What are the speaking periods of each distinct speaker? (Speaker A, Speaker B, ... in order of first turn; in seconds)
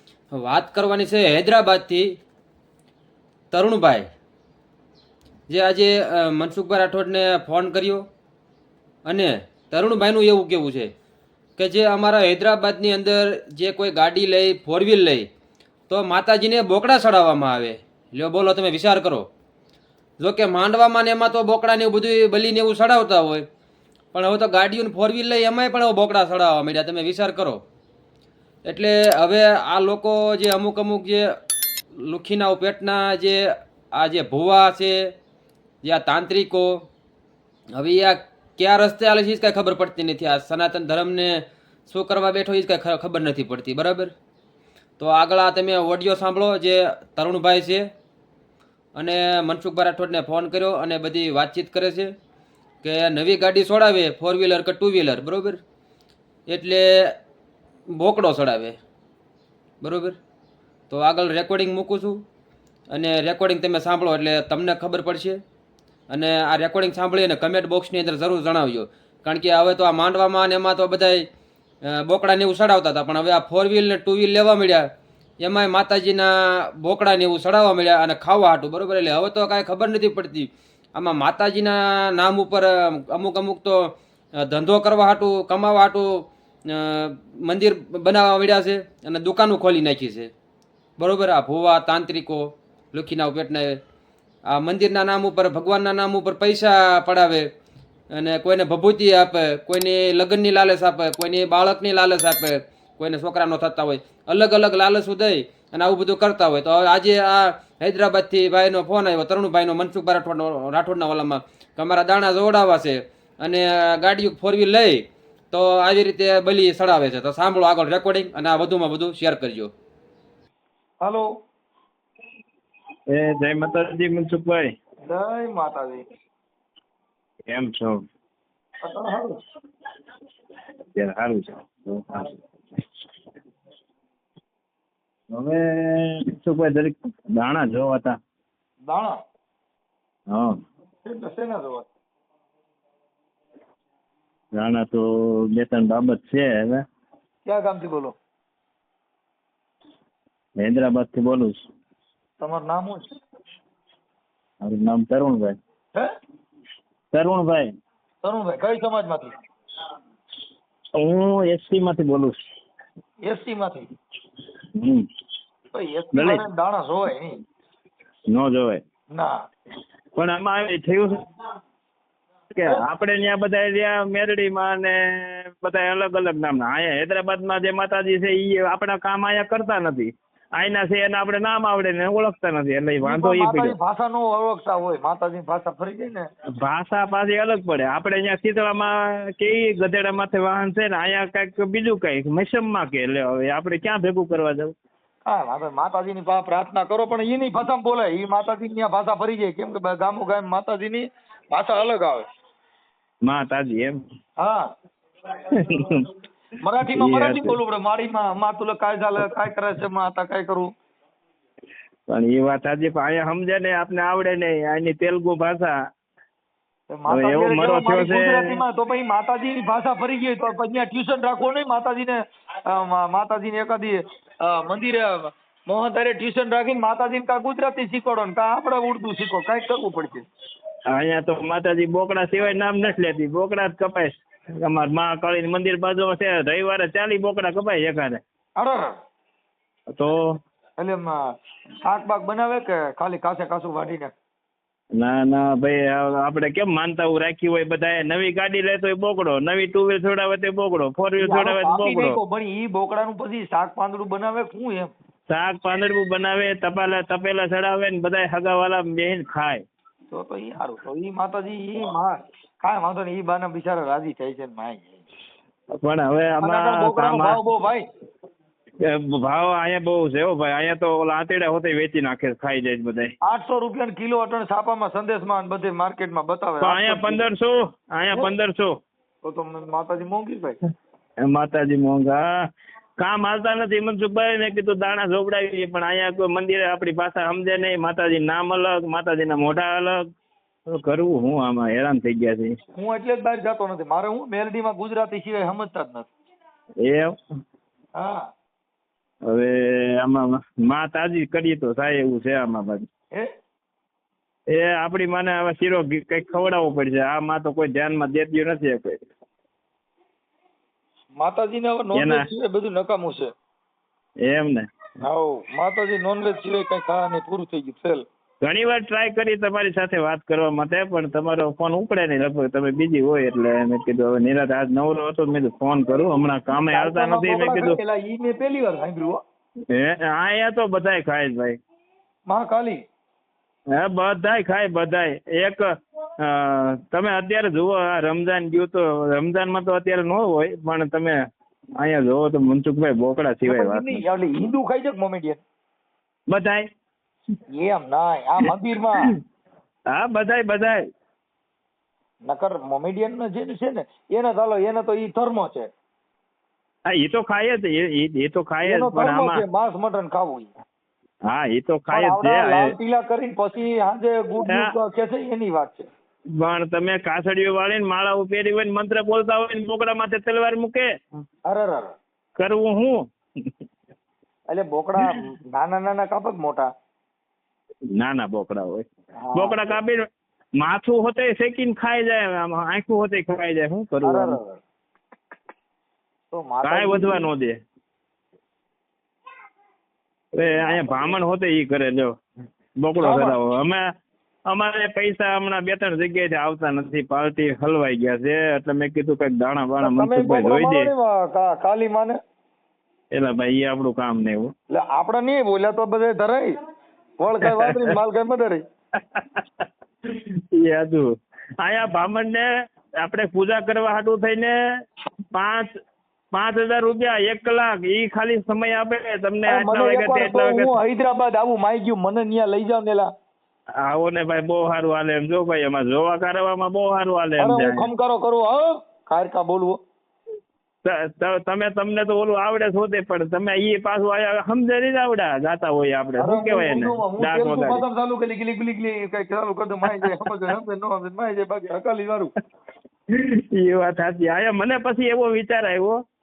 Speaker A: 0.3-2.1, 3.5-4.1, 5.5-8.1, 9.1-10.9, 11.6-15.3, 15.9-19.3, 20.2-23.4, 24.1-27.6, 28.6-31.4, 32.0-35.1, 35.8-36.9, 37.7-44.1, 45.0-47.9, 49.0-52.1, 52.8-55.6, 56.5-57.1, 57.9-58.8, 59.8-60.2, 60.9-62.2, 62.9-65.4, 66.1-71.2, 71.8-74.9, 75.4-90.3, 91.0-93.8, 94.5-97.5, 98.1-119.7
Speaker B: 123.1-124.7, 127.5-128.0, 130.9-132.4, 135.3-138.2, 144.6-146.8, 150.6-151.6, 154.6-155.5, 157.1-157.7, 161.0-162.3, 164.8-165.0, 166.1-166.4, 168.3-168.8, 170.2-171.2, 172.5-183.8, 186.6-194.7, 203.2-204.0, 205.5-206.1, 206.8-207.6, 212.1-215.7, 217.1-218.6, 230.9-238.2, 240.0-240.2, 245.0-252.2, 255.3-259.6, 265.7-267.4, 268.8-273.1, 276.6-278.7, 281.3-282.2, 283.0-290.0, 290.7-292.6, 296.8-297.2, 299.3-302.9, 304.5-309.0, 311.9-312.3, 314.2-314.6, 318.4-327.8, 329.7-331.6, 333.7-335.6, 336.2-341.1, 341.8-344.0, 346.3-346.6, 349.9-350.8, 356.9-359.4, 361.3-362.7, 364.4-364.7, 366.4-370.9, 372.4-373.0, 378.0-380.0, 380.6-384.4, 386.6-387.6, 390.4-392.1, 392.8-393.8, 394.5-400.9, 403.1-404.5, 407.4-407.9, 409.0-411.1, 411.6-412.5, 413.0-414.5, 415.3-415.7, 416.3-420.8, 423.9-427.9, 430.9-437.9, 443.1-446.0
Speaker C: 125.0-126.0, 128.8-129.4, 138.9-139.2, 141.1-141.9, 147.5-148.2, 152.4-153.0, 158.2-159.3, 163.3-163.9, 165.7-167.4, 183.0-186.2, 195.2-202.2, 206.6-210.7, 216.9-222.2, 222.7-230.2, 240.8-241.2, 241.8-244.1, 251.2-254.9, 260.1-265.0, 266.4-267.8, 273.2-277.2, 279.2-280.6, 292.8-296.1, 311.2-313.3, 315.0-318.0, 326.5-329.2, 332.3-332.8, 343.5-345.4, 347.6-349.1, 352.3-355.7, 358.6-360.5, 361.9-365.9, 371.5-371.9, 374.5-376.7, 379.2-379.7, 384.1-384.6, 386.3-387.2, 390.6-391.1, 393.0-393.4, 399.8-402.1, 404.7-406.5, 407.2-408.6, 419.5-423.1, 427.4-429.8, 436.2-442.3